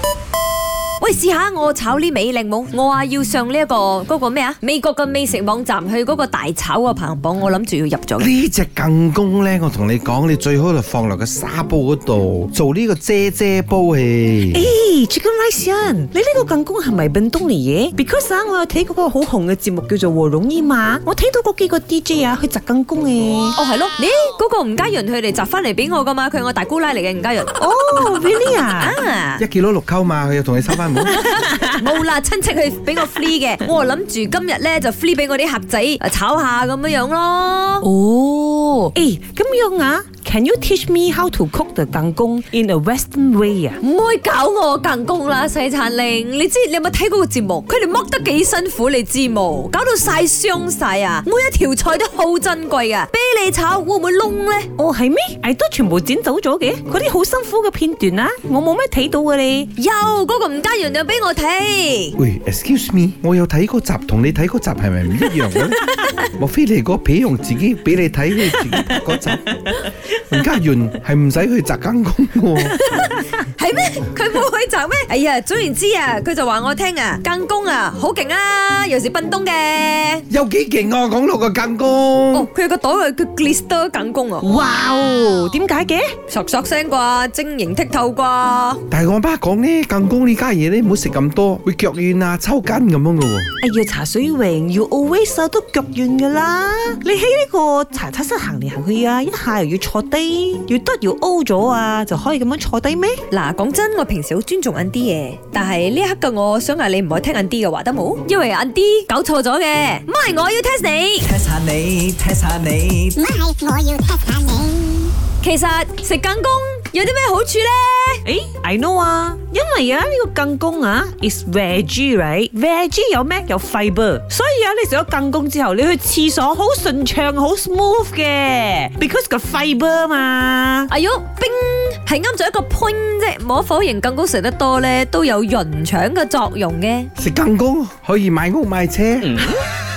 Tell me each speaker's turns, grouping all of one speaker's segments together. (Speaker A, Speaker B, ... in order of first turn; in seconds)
Speaker A: 1.0-8.3, 23.6-27.6, 28.7-29.4, 31.0-37.9, 43.8-54.7, 59.8-62.2, 72.6-80.2, 82.3-84.5, 86.3-88.8, 103.3-111.3, 115.4-118.2, 130.9-137.1
Speaker B: 8.2-14.7, 29.4-31.3, 62.2-69.7, 70.3-72.8, 80.3-82.5, 88.9-93.5, 137.2-139.5
Speaker C: 14.5-23.6, 27.6-29.0, 31.3-31.6, 37.8-43.8, 54.8-59.7, 84.4-86.1, 93.6-103.2, 118.3-130.9
Speaker D: 111.2-113.2
Speaker E: 113.2-115.1